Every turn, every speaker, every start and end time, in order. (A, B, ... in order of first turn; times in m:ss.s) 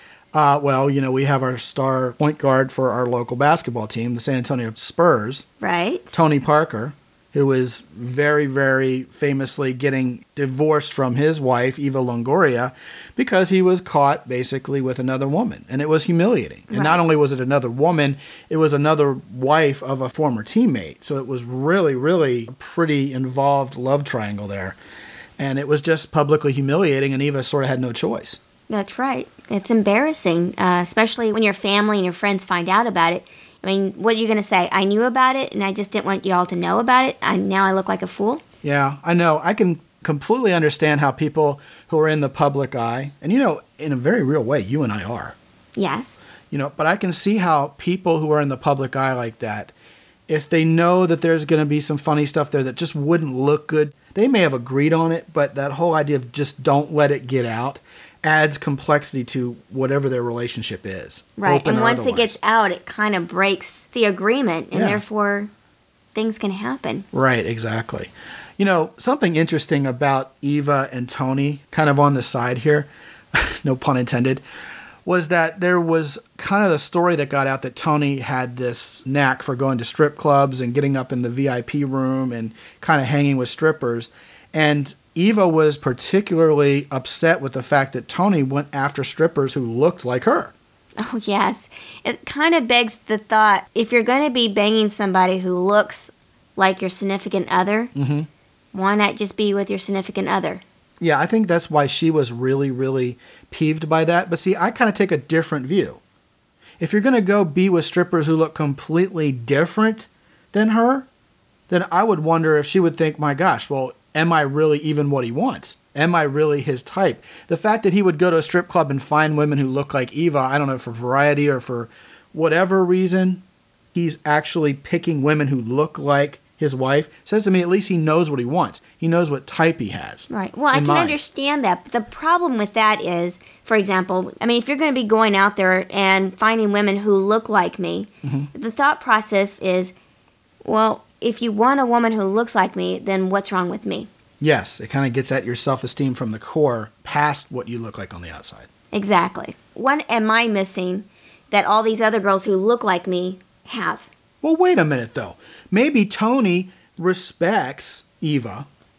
0:00.3-0:05.5 A
0:05.6-0:06.2 B
0:06.1-0:24.8 A
0:16.7-0:17.0 B
0:25.4-0:28.4 A
0:28.7-0:38.4 B
0:38.6-0:45.4 A
0:45.8-0:46.2 B
0:46.5-0:49.7 A
0:50.3-1:02.3 A
1:01.4-1:05.5 B
1:04.7-1:05.0 A
1:06.1-1:07.0 B
1:07.1-1:14.4 A
1:15.0-1:30.5 A
1:31.0-1:37.9 B
1:37.9-1:38.3 A
1:38.7-1:40.6 B
1:41.0-1:46.0 A
1:46.8-1:51.1 A
1:51.7-2:03.4 A
2:03.9-2:11.2 A
2:10.3-2:19.9 B
2:18.2-2:18.5 A
2:20.6-2:24.1 B
2:24.4-2:28.7 A
2:28.9-2:34.1 B
2:34.4-2:38.7 A